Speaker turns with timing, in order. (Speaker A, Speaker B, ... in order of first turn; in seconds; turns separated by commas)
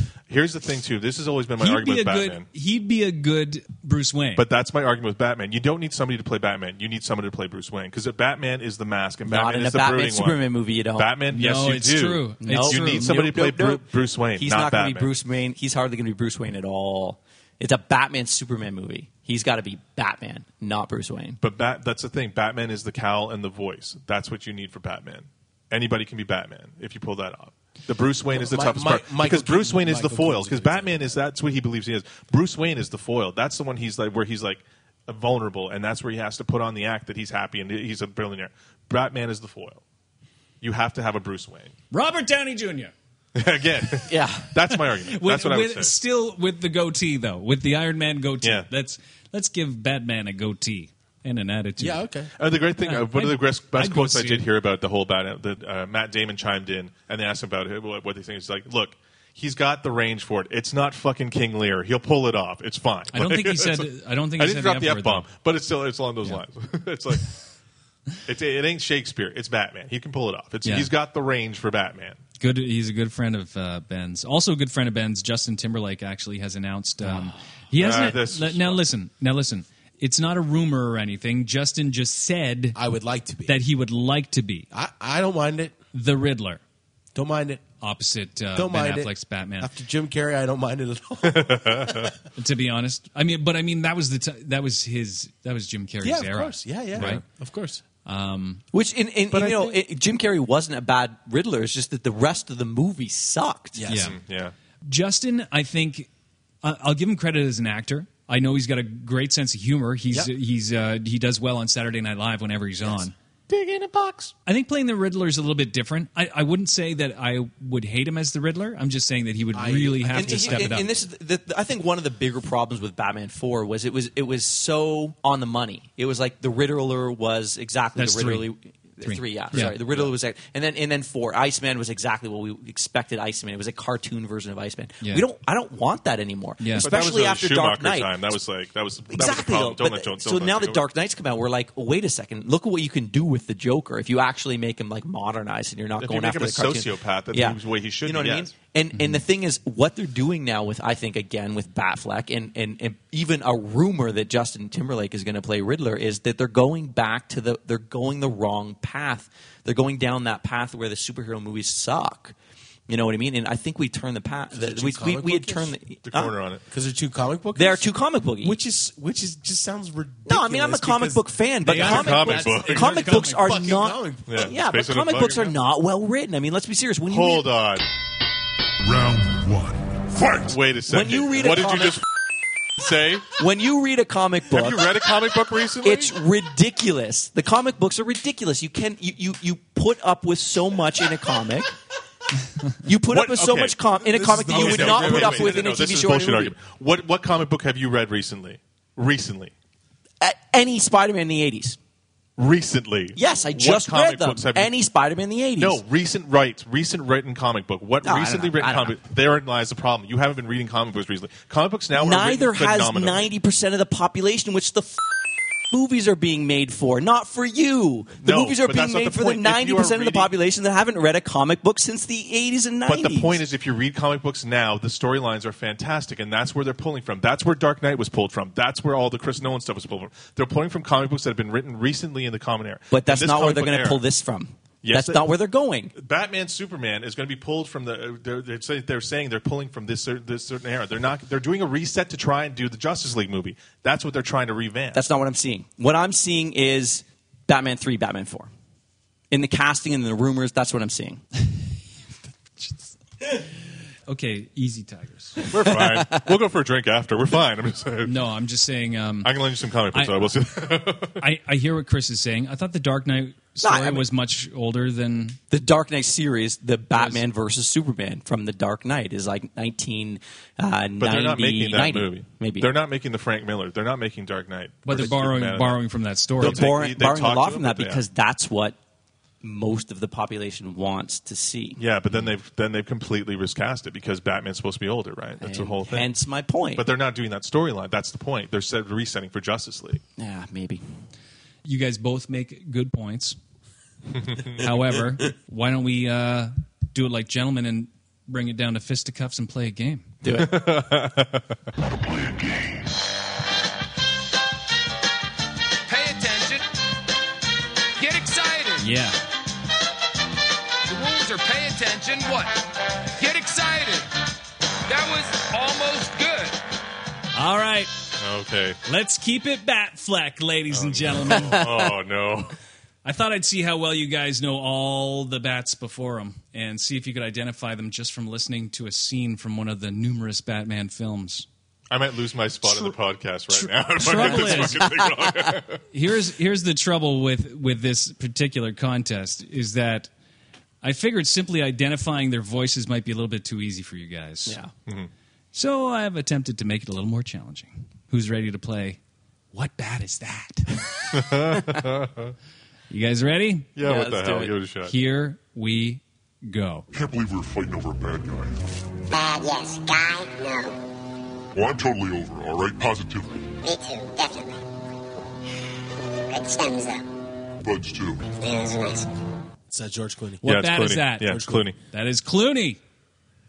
Speaker A: 0.3-2.5, Speaker B: 1.6-4.4, Speaker A: 4.3-10.4, Speaker C: 9.2-11.1, Speaker A: 10.9-15.1, Speaker B: 11.3-13.2, Speaker C: 12.4-21.4, Speaker A: 21.4-39.8, Speaker D: 28.3-31.2, Speaker A: 40.6-41.7, Speaker B: 41.9-42.9, Speaker A: 43.3-45.9, Speaker C: 44.1-44.5, Speaker B: 45.0-52.0, Speaker A: 48.4-48.7, Speaker D: 51.8-52.3, Speaker A: 52.4-67.3, Speaker B: 52.8-54.4, Speaker B: 63.1-65.2, Speaker A: 68.2-72.2, Speaker B: 70.6-70.9, Speaker B: 72.4-82.8, Speaker A: 77.7-78.8, Speaker D: 82.7-83.6, Speaker B: 83.5-84.7, Speaker D: 84.7-85.7, Speaker B: 85.9-86.6, Speaker D: 87.1-87.6, Speaker B: 87.8-89.7, Speaker D: 88.5-92.1, Speaker A: 91.2-92.1, Speaker B: 92.3-97.2, Speaker D: 96.0-97.8, Speaker A: 97.0-97.2, Speaker B: 98.0-98.6, Speaker C: 98.7-103.9, Speaker A: 99.4-99.7, Speaker D: 103.7-104.1, Speaker B: 103.9-104.2, Speaker A: 104.0-104.5, Speaker B: 104.8-106.1, Speaker B: 106.6-113.1, Speaker A: 113.5-114.3, Speaker B: 114.5-120.9, Speaker D: 119.5-121.0, Speaker C: 120.1-138.2, Speaker B: 128.0-128.5, Speaker B: 129.0-129.8, Speaker A: 129.6-130.1, Speaker B: 136.6-136.9, Speaker A: 136.8-140.8, Speaker C: 139.1-162.3, Speaker A: 146.0-148.5, Speaker B: 148.9-149.2, Speaker C: 162.9-166.3, Speaker D: 164.5-165.8, Speaker A: 166.1-166.6, Speaker D: 166.7-167.9, Speaker C: 167.5-168.6, Speaker D: 168.4-171.4, Speaker C: 170.2-177.5, Speaker B: 171.6-173.7, Speaker A: 171.7-173.2, Speaker D: 172.3-174.4, Speaker A: 174.2-175.6, Speaker A: 177.1-177.8, Speaker E: 178.8-180.6, Speaker A: 180.4-182.1, Speaker C: 180.9-182.0, Speaker A: 182.8-183.3, Speaker C: 183.4-185.0, Speaker A: 184.5-186.2, Speaker C: 185.8-191.7, Speaker C: 192.8-196.6, Speaker A: 193.1-199.5, Speaker D: 193.9-195.8, Speaker C: 200.2-201.8, Speaker A: 202.4-204.7, Speaker C: 203.2-205.8, Speaker A: 205.6-213.3, Speaker C: 208.0-209.0, Speaker C: 211.9-215.1, Speaker C: 215.7-223.4, Speaker A: 218.2-220.3, Speaker A: 222.8-234.0, Speaker C: 232.9-235.9, Speaker A: 234.8-235.3, Speaker A: 235.9-245.1, Speaker C: 244.9-248.5, Speaker C: 249.3-251.2, Speaker B: 254.1-255.4, Speaker A: 255.5-258.1, Speaker C: 255.6-256.3, Speaker B: 258.0-259.3, Speaker A: 259.2-261.2, Speaker B: 259.9-260.3, Speaker B: 261.2-265.4, Speaker C: 263.6-264.1, Speaker C: 265.5-272.7, Speaker B: 267.0-267.2, Speaker A: 271.0-275.8, Speaker B: 274.8-276.6, Speaker A: 276.4-278.0, Speaker C: 276.4-278.8, Speaker C: 279.4-282.2, Speaker A: 281.8-286.1, Speaker C: 285.4-286.9, Speaker A: 286.7-290.0, Speaker C: 290.2-290.8, Speaker B: 291.6-293.4, Speaker A: 294.1-294.7, Speaker B: 294.6-300.1, Speaker C: 300.2-300.7, Speaker A: 300.3-301.6, Speaker F: 305.9-306.6, Speaker F: 308.0-308.8, Speaker B: 308.8-309.2, Speaker F: 310.9-312.5, Speaker F: 313.2-314.1, Speaker F: 314.9-316.6, Speaker B: 317.3-317.9, Speaker A: 318.2-318.8, Speaker B: 318.9-321.7, Speaker A: 320.7-322.6, Speaker C: 321.5-321.9, Speaker B: 323.0-331.5, Speaker A: 331.9-335.8, Speaker B: 332.6-332.9, Speaker B: 333.5-334.9, Speaker C: 334.2-335.5, Speaker B: 335.9-340.1, Speaker B: 340.8-344.6, Speaker C: 344.5-344.7, Speaker B: 345.5-349.0, Speaker B: 349.5-350.9, Speaker A: 351.1-352.3, Speaker B: 352.9-353.7, Speaker A: 353.8-354.9, Speaker C: 353.8-354.5, Speaker B: 354.9-356.9, Speaker E: 356.9-358.7, Speaker G: 359.1-360.7, Speaker E: 361.5-363.5, Speaker G: 363.6-364.6, Speaker G: 366.3-367.0, Speaker E: 367.6-368.4, Speaker G: 368.4-369.1, Speaker D: 369.7-370.5, Speaker B: 370.4-372.8, Speaker A: 370.4-371.8, Speaker D: 371.2-371.7